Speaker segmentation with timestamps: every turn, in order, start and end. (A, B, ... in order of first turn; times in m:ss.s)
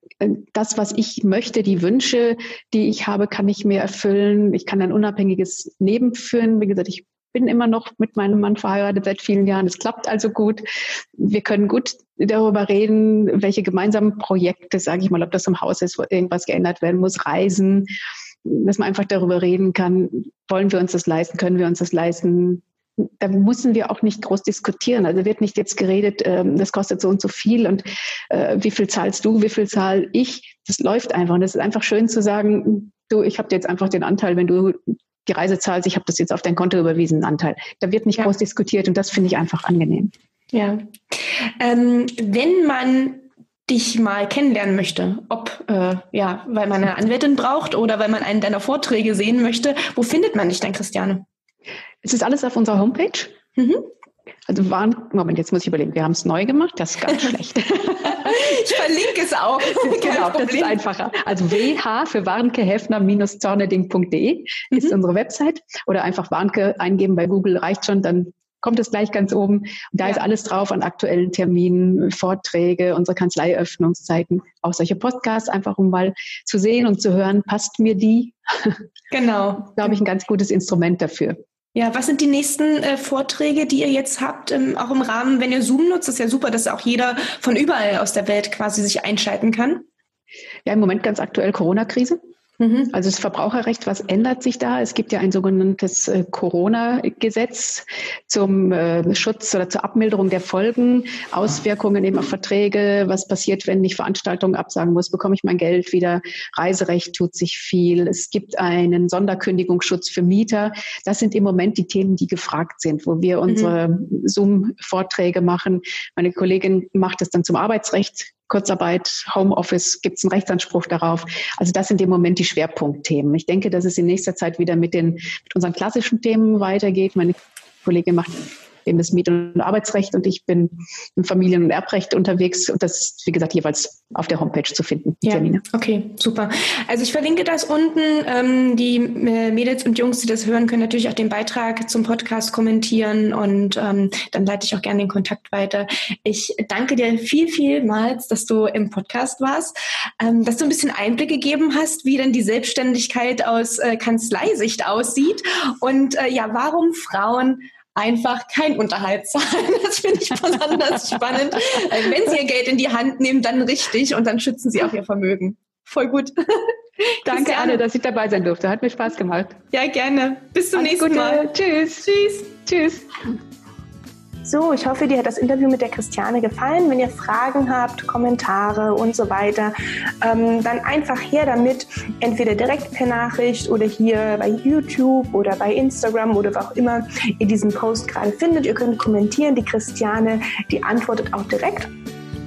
0:00.2-0:17.9 A
0:18.4-0:40.1 A
0:40.5-0:40.9 B
0:41.6-0:51.2 B
0:52.0-0:53.3 A
0:53.6-0:53.9 B
0:54.5-0:58.8 A
0:58.0-1:00.8 B
0:59.6-1:18.8 A
1:19.1-1:19.9 B
1:19.6-1:21.4 A
1:21.7-1:29.9 B
1:30.6-1:32.2 A
1:32.6-1:32.9 B
1:32.9-2:15.6 A
2:15.2-2:47.8 B
2:47.2-2:49.6 A
2:49.7-2:51.5 B
2:50.7-2:52.1 A
2:52.0-2:52.6 B
2:52.6-2:53.0 A
2:54.4-3:11.9 B